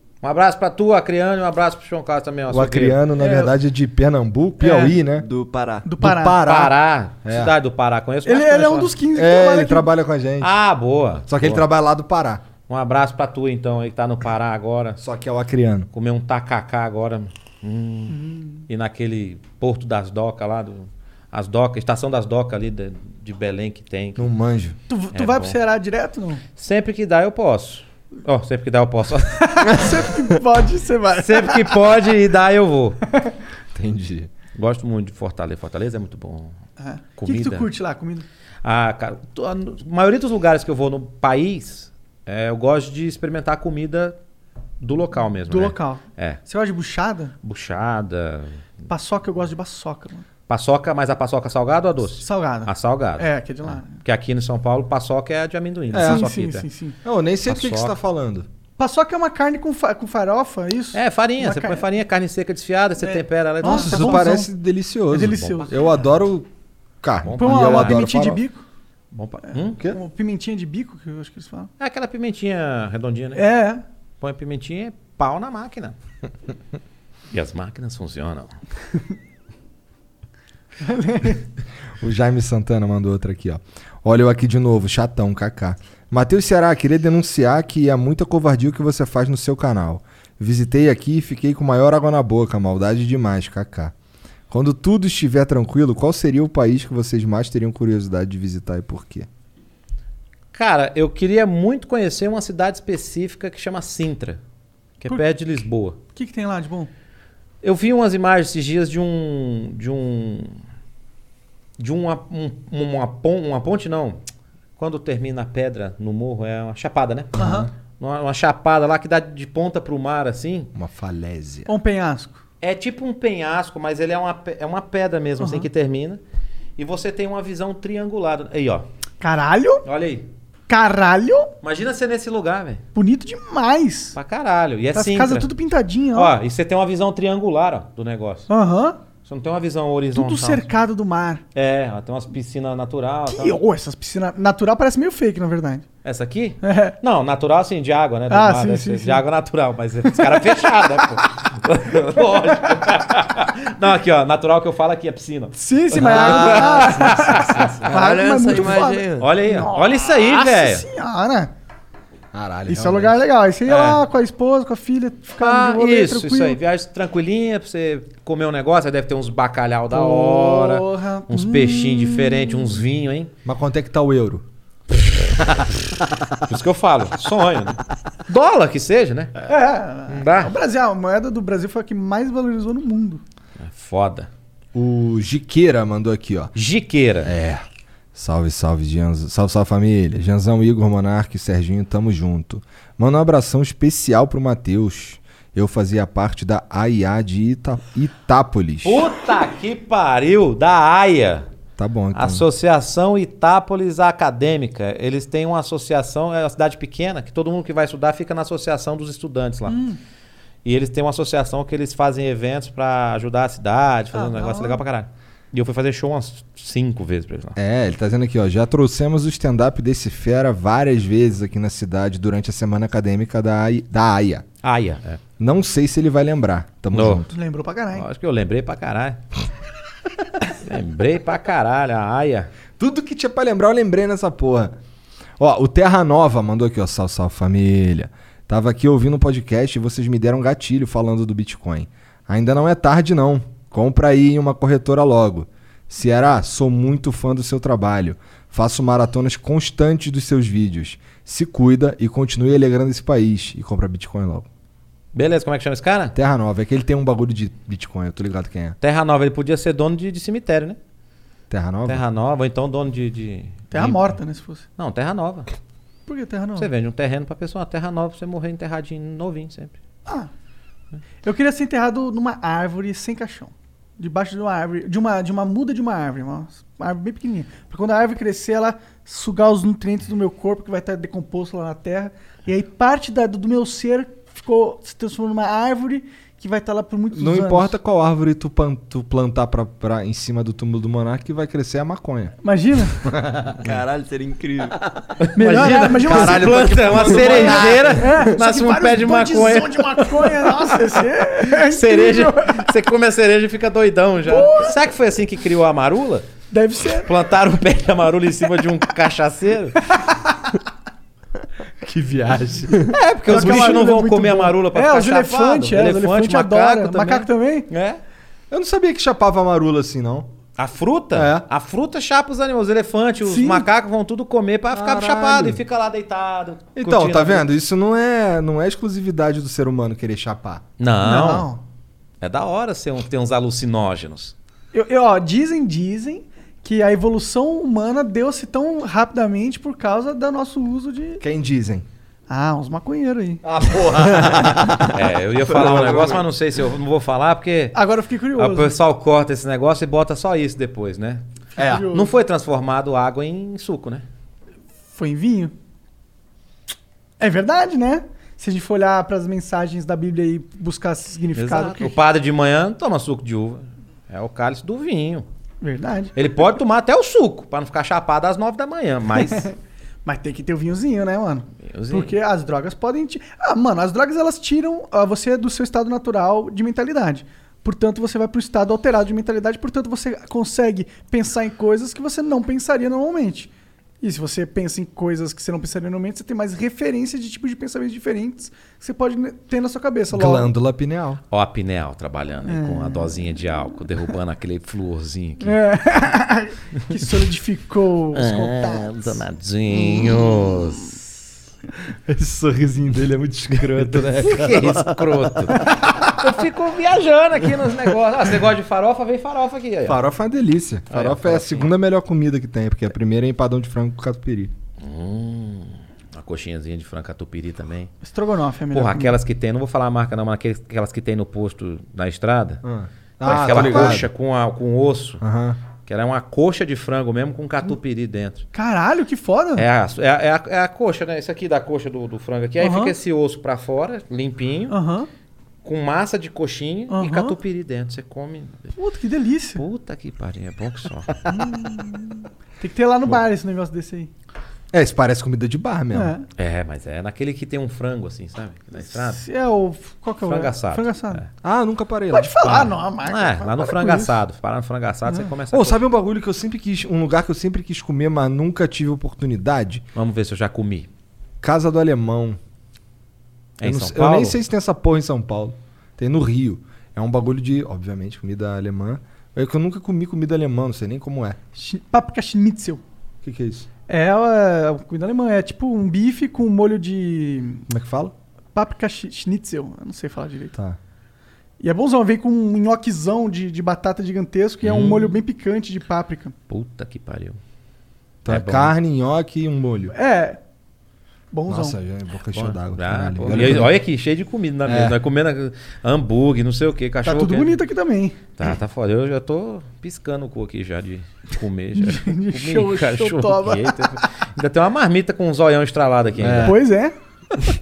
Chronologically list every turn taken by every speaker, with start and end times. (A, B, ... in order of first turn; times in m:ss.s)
0:00.2-0:03.0 A
0:02.5-0:05.3 B
0:03.2-0:03.5 C
0:04.6-0:05.0 C
0:05.1-0:05.9 D
0:05.8-0:06.4 C
0:06.0-0:06.7 B
0:06.4-0:08.9 A
0:07.2-0:07.5 B
0:08.3-0:09.9 C
0:09.1-0:10.5 B
0:10.4-0:11.6 A
0:11.3-0:12.4 B
0:12.7-0:15.0 A
0:15.0-0:15.9 B
0:15.9-0:18.2 A
0:18.1-0:18.6 C
0:18.7-0:24.3 A
0:24.2-0:24.8 B
0:24.9-0:26.4 C
0:25.1-0:25.6 A
0:26.6-0:29.8 A
0:29.4-0:31.8 C
0:31.2-0:33.0 A
0:33.8-0:34.3 B
0:34.6-0:36.5 A
0:36.8-0:38.3 C
0:37.2-0:37.7 A
0:38.6-0:44.2 A
0:44.8-0:46.4 A
0:45.5-0:47.3 C
0:47.4-0:48.6 A
0:48.9-0:50.3 C
0:50.5-0:56.7 A
0:52.2-0:53.9 C
0:55.9-0:56.3 B
0:56.0-0:57.0 C
0:57.0-0:58.5 B
0:57.5-0:58.0 A
0:58.8-1:01.8 C
1:00.9-1:04.3 A
1:03.0-1:04.5 C
1:03.6-1:06.5 B
1:05.1-1:05.7 C
1:05.3-1:05.8 A
1:07.0-1:08.4 B
1:07.2-1:08.1 A
1:07.4-1:08.6 C
1:09.1-1:09.8 A
1:09.9-1:11.7 C
1:11.8-1:13.5 A
1:13.4-1:13.8 C
1:14.2-1:16.0 A
1:17.3-1:18.6 A
1:20.8-1:21.4 C
1:22.0-1:33.9 B
1:34.5-1:39.3 B
1:40.5-1:44.4 A
1:45.0-1:46.0 A
1:46.1-1:46.9 C
1:47.6-1:50.6 A
1:51.8-1:54.2 A
1:54.8-1:57.4 A
1:57.4-1:57.7 B
1:57.4-1:57.7 C
1:58.0-2:00.7 A
2:00.8-2:01.7 B
2:01.7-2:02.4 C
2:02.6-2:06.2 A
2:05.4-2:05.7 C
2:06.8-2:08.9 A
2:09.2-2:09.8 C
2:09.8-2:10.3 A
2:10.7-2:11.5 C
2:11.6-2:12.8 A
2:13.0-2:14.2 C
2:14.1-2:15.5 A
2:14.9-2:16.4 C
2:16.1-2:18.5 A
2:18.5-2:19.0 C
2:19.3-2:20.7 A
2:20.1-2:21.4 C
2:21.6-2:23.6 A
2:23.3-2:25.8 C
2:26.0-2:37.8 A
2:26.6-2:27.0 C
2:28.3-2:29.2 C
2:30.2-2:30.8 C
2:35.6-2:41.5 C
2:37.8-2:39.3 D
2:39.2-2:40.9 A
2:42.3-2:43.2 B
2:42.7-2:46.6 C
2:43.7-2:44.0 A
2:45.4-2:53.3 A
2:49.9-2:52.7 C
2:53.4-2:54.4 B
2:56.4-2:59.3 A
2:59.5-3:03.2 C
3:00.1-3:00.5 A
3:03.6-3:04.3 A
3:04.7-3:06.5 B
3:06.6-3:07.3 A
3:07.2-3:19.1 B
3:18.8-3:21.5 A
3:21.8-3:22.4 B
3:22.1-3:29.8 A
3:29.7-3:30.0 C
3:30.6-3:37.6 A
3:34.1-3:34.8 C
3:37.6-3:44.4 B
3:44.6-3:45.2 A
3:45.4-3:47.3 B
3:46.9-3:47.3 A
3:47.3-3:48.0 C
3:47.9-3:49.2 A
3:50.6-3:52.5 A
3:52.8-3:54.8 B
3:55.4-4:14.5 B
4:15.1-4:16.1 A
4:16.1-4:18.8 B
4:18.8-4:20.8 A
4:21.5-4:22.0 B
4:21.9-4:24.2 A
4:23.7-4:24.6 C
4:24.8-4:25.5 A
4:26.1-4:26.7 C
4:26.6-4:29.8 A
4:31.2-4:47.8 C
4:47.1-4:52.4 B
4:52.4-4:53.0 C
4:53.1-4:53.6 B
4:53.6-4:54.9 D
4:55.2-5:00.8 A
4:55.4-5:02.7 C
4:56.0-4:58.2 B
5:01.5-5:06.3 A
5:04.3-5:04.7 C
5:06.5-5:07.1 C
5:07.0-5:09.8 A
5:11.8-5:13.8 B
5:12.9-5:18.0 A
5:13.3-5:17.7 C
5:18.5-5:20.3 B
5:20.6-5:27.5 A
5:21.1-5:21.4 B
5:23.2-5:23.7 C
5:24.7-5:25.6 B
5:26.8-5:30.6 B
5:30.8-5:31.5 A
5:31.0-5:31.6 C
5:32.2-5:34.3 A
5:34.7-5:41.2 C
5:41.2-5:41.8 B
5:42.3-5:43.4 C
5:43.4-5:44.9 B
5:44.9-5:47.8 A
5:45.4-5:46.2 B
5:47.7-5:48.8 C
5:48.4-5:51.2 A
5:51.6-5:51.9 B
5:51.6-5:52.1 C
5:51.8-5:54.0 A
5:54.9-5:55.5 C
5:57.2-6:02.0 C
6:01.4-6:05.2 A
6:05.6-6:06.1 C
6:06.2-6:09.5 A
6:09.2-6:09.5 C
6:10.0-6:30.5 C
6:11.7-6:12.2 A
6:30.1-6:31.2 B
6:31.3-6:35.6 A
6:32.5-6:33.4 C
6:35.4-6:39.2 C
6:38.1-6:41.0 A
6:39.8-6:40.5 C
6:42.1-6:45.8 B
6:44.2-6:50.0 A
6:49.9-6:54.5 B
6:50.9-6:51.7 A
6:54.8-6:57.9 A
6:58.0-6:59.1 C
6:58.7-7:02.6 A
7:02.6-7:04.1 B
7:03.2-7:05.2 A
7:03.5-7:04.0 C
7:05.2-7:05.6 B
7:05.8-7:08.5 A
7:08.5-7:09.6 C
7:09.6-7:14.8 A
7:12.6-7:12.9 C
7:14.7-7:15.1 C
7:15.6-7:18.7 A
7:16.9-7:17.4 C
7:18.8-7:19.6 C
7:19.6-7:21.1 A
7:21.3-7:24.1 C
7:24.7-7:26.1 B
7:25.9-7:26.3 C
7:26.4-7:29.2 A
7:28.9-7:31.2 C
7:30.2-7:31.3 A
7:31.4-7:32.3 B
7:32.1-7:34.2 C
7:32.4-7:35.8 A
7:35.1-7:35.3 C
7:35.5-7:39.8 B
7:40.0-7:40.9 A
7:41.4-7:42.4 B
7:43.6-7:44.4 A
7:43.6-7:51.4 B
7:51.6-7:52.8 C
7:53.2-7:53.7 B
7:53.9-7:57.6 C
7:57.7-7:58.1 B
7:58.6-8:00.5 C
8:01.6-8:06.4 C
8:04.6-8:05.2 A
8:06.5-8:07.4 A
8:08.2-8:10.0 B
8:08.3-8:08.7 A
8:09.9-8:10.4 C
8:11.3-8:11.8 C
8:11.5-8:13.8 B
8:12.3-8:17.6 A
8:14.6-8:15.0 B
8:17.0-8:18.2 C
8:18.4-8:26.6 A
8:21.8-8:24.0 C
8:26.2-8:26.6 B
8:26.4-8:26.9 C